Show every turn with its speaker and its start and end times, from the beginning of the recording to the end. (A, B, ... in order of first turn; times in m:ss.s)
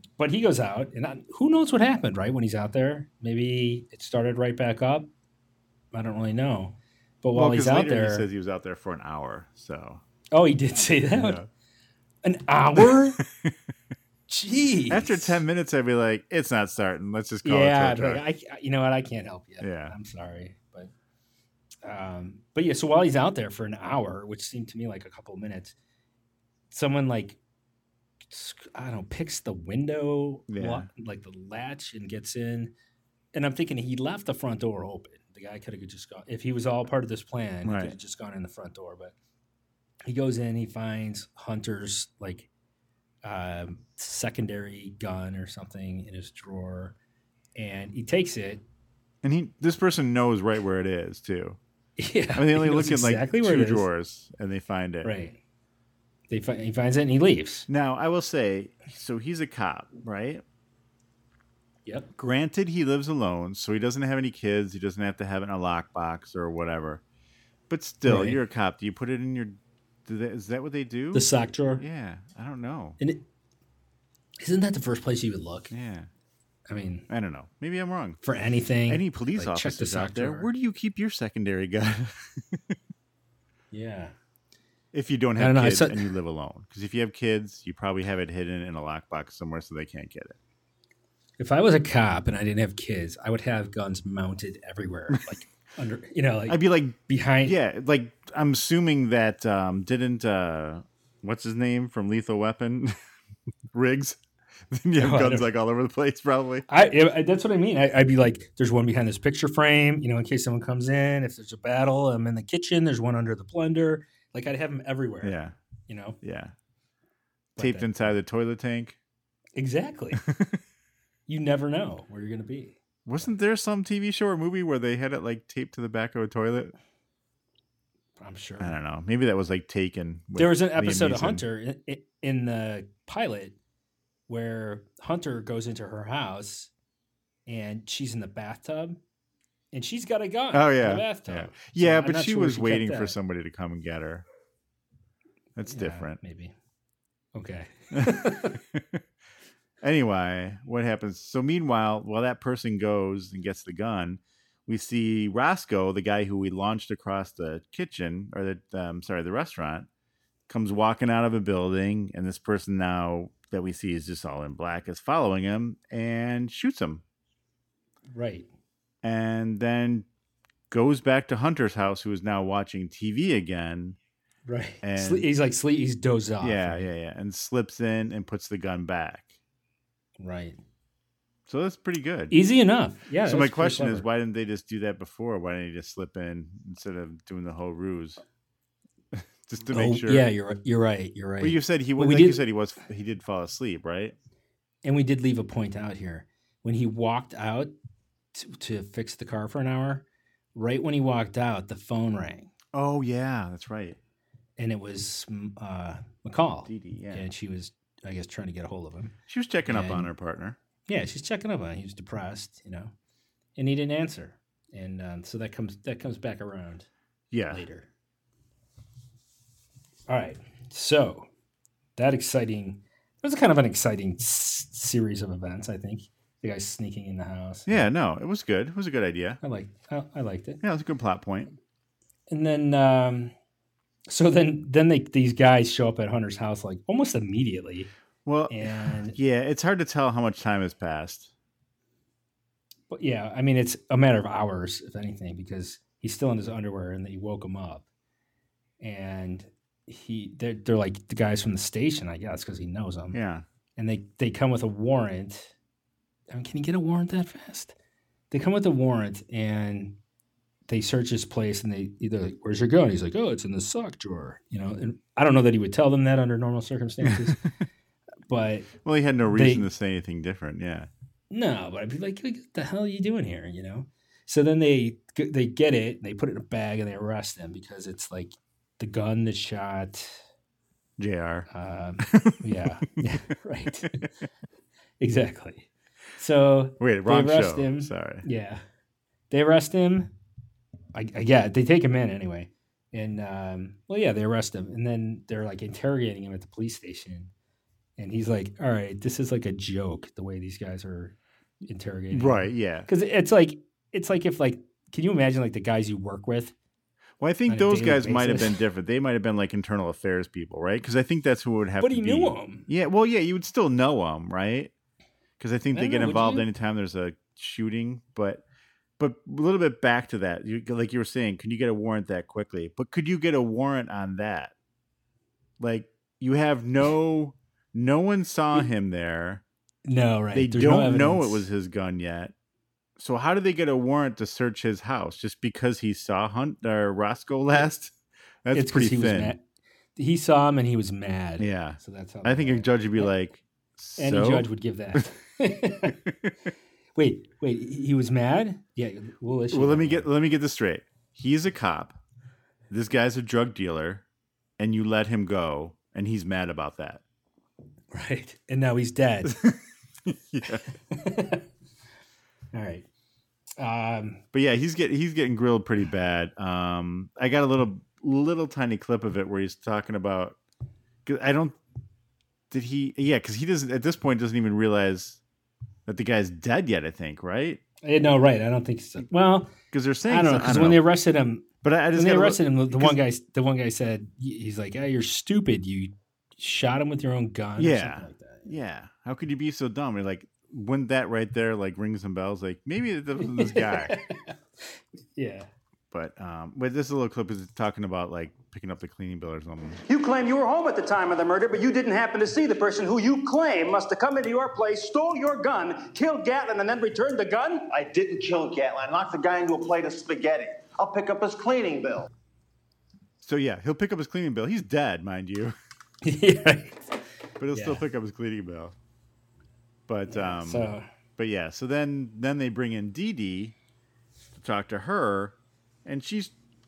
0:00.2-0:05.1 A
0:05.9-0:08.3 A
0:07.3-0:10.0 B
0:10.3-0:11.4 A
0:11.1-0:11.5 B
0:12.2-0:13.2 A
0:12.8-0:13.6 B
0:14.3-0:15.4 A
0:14.5-0:18.2 B
0:17.4-0:20.9 A
0:19.6-0:19.9 B
0:21.8-0:25.7 A
0:26.7-0:27.4 A
0:28.3-0:32.7 A
0:30.5-0:30.9 B
0:33.3-0:39.1 A
0:37.6-0:38.0 B
0:40.0-0:42.5 A
0:43.2-0:47.0 A
0:47.6-0:48.6 A
0:49.2-0:51.6 B
0:52.0-0:53.9 A
0:52.3-0:55.1 B
0:55.0-0:55.4 A
0:56.3-0:57.7 A
0:57.7-1:00.4 B
1:01.8-1:02.1 A
1:02.2-1:07.0 B
1:07.7-1:13.0 B
1:08.0-1:08.4 A
1:11.1-1:11.8 A
1:14.4-1:15.7 A
1:15.7-1:16.1 B
1:16.7-1:17.1 A
1:17.1-1:18.2 B
1:18.2-1:20.5 A
1:18.9-1:22.8 B
1:23.7-1:24.1 A
1:24.9-1:30.4 B
1:25.4-1:26.1 A
1:31.4-1:37.6 A
1:36.5-1:42.9 B
1:43.7-1:44.2 B
1:44.7-1:46.6 B
1:45.0-1:45.5 A
1:46.7-1:55.3 A
1:55.2-1:55.5 B
1:55.9-1:56.2 A
1:56.2-1:56.5 B
1:57.6-1:59.0 B
1:57.6-1:58.2 A
1:59.6-2:00.2 A
2:00.2-2:00.6 B
2:01.3-2:03.3 A
2:03.0-2:06.7 B
2:08.2-2:08.7 A
2:08.6-2:11.4 B
2:10.4-2:13.6 A
2:14.3-2:16.7 A
2:17.4-2:19.0 A
2:19.7-2:23.2 A
2:20.5-2:24.2 B
2:25.6-2:26.2 B
2:25.6-2:26.5 A
2:27.3-2:28.6 A
2:27.9-2:29.0 B
2:29.8-2:39.9 B
2:40.5-2:47.0 B
2:48.1-2:48.5 A
2:49.0-2:50.1 B
2:50.7-2:54.0 B
2:54.4-2:56.9 A
2:54.8-2:55.3 B
2:56.4-2:59.3 B
3:00.2-3:00.6 A
3:01.5-3:02.4 B
3:02.3-3:04.0 A
3:03.2-3:08.2 B
3:09.1-3:10.3 B
3:09.7-3:12.4 A
3:11.4-3:14.2 B
3:14.8-3:17.7 A
3:18.3-3:22.5 A
3:22.7-3:24.0 B
3:24.6-3:29.1 A
3:26.7-3:27.3 B
3:29.3-3:30.6 B
3:29.6-3:30.1 A
3:30.9-3:32.9 A
3:33.6-3:36.9 A
3:37.3-3:37.6 B
3:37.5-3:37.9 A
3:40.1-3:41.3 A
3:42.0-3:47.8 A
3:47.7-3:49.4 B
3:49.4-3:50.6 A
3:50.6-3:51.5 B
3:52.3-3:53.3 A
3:54.1-3:57.9 A
3:58.2-4:01.3 B
3:58.5-3:59.2 A
4:02.9-4:07.8 A
4:08.8-4:13.2 A
4:13.1-4:13.4 B
4:13.8-4:15.5 A
4:16.3-4:17.7 A
4:18.3-4:20.0 A
4:20.7-4:27.4 A
4:27.1-4:27.4 B
4:28.3-4:28.7 A
4:28.8-4:30.9 B
4:29.3-4:29.7 A
4:31.3-4:40.2 A
4:41.0-4:41.5 B
4:41.5-4:44.1 A
4:42.0-4:42.5 B
4:45.0-4:48.6 A
4:46.8-4:48.2 B
4:49.3-4:50.1 A
4:50.9-4:57.3 A
4:58.0-5:01.1 A
5:01.6-5:06.5 A
5:02.1-5:02.9 B
5:07.2-5:14.7 B
5:07.5-5:08.6 A
5:11.8-5:12.7 A
5:15.4-5:18.4 B
5:15.7-5:16.5 A
5:19.0-5:24.5 B
5:25.6-5:29.4 B
5:29.8-5:31.4 A
5:30.3-5:32.3 B
5:33.0-5:39.3 B
5:38.5-5:39.4 A
5:40.0-5:43.1 A
5:41.4-5:45.0 B
5:44.0-5:46.0 A
5:47.0-5:50.1 A
5:49.5-5:52.0 B
5:52.7-5:54.0 B
5:54.6-5:57.0 B
5:57.9-5:59.3 A
5:59.2-6:00.6 B
6:00.9-6:01.4 A
6:02.5-6:02.8 A
6:03.6-6:04.2 A
6:04.3-6:10.4 B
6:11.0-6:11.6 B
6:12.5-6:15.2 B
6:15.8-6:17.6 B
6:17.8-6:19.5 A
6:19.7-6:20.8 B
6:20.1-6:28.6 A
6:21.6-6:23.0 B
6:27.6-6:34.0 B
6:33.2-6:35.5 A
6:35.9-6:39.8 B
6:39.9-6:47.7 C
6:47.7-6:52.1 D
6:53.2-6:55.5 B
6:56.0-6:57.0 A
6:57.4-6:58.7 B
6:57.5-6:57.8 A
6:59.9-7:03.5 B
7:00.1-7:00.8 A
7:04.3-7:06.3 B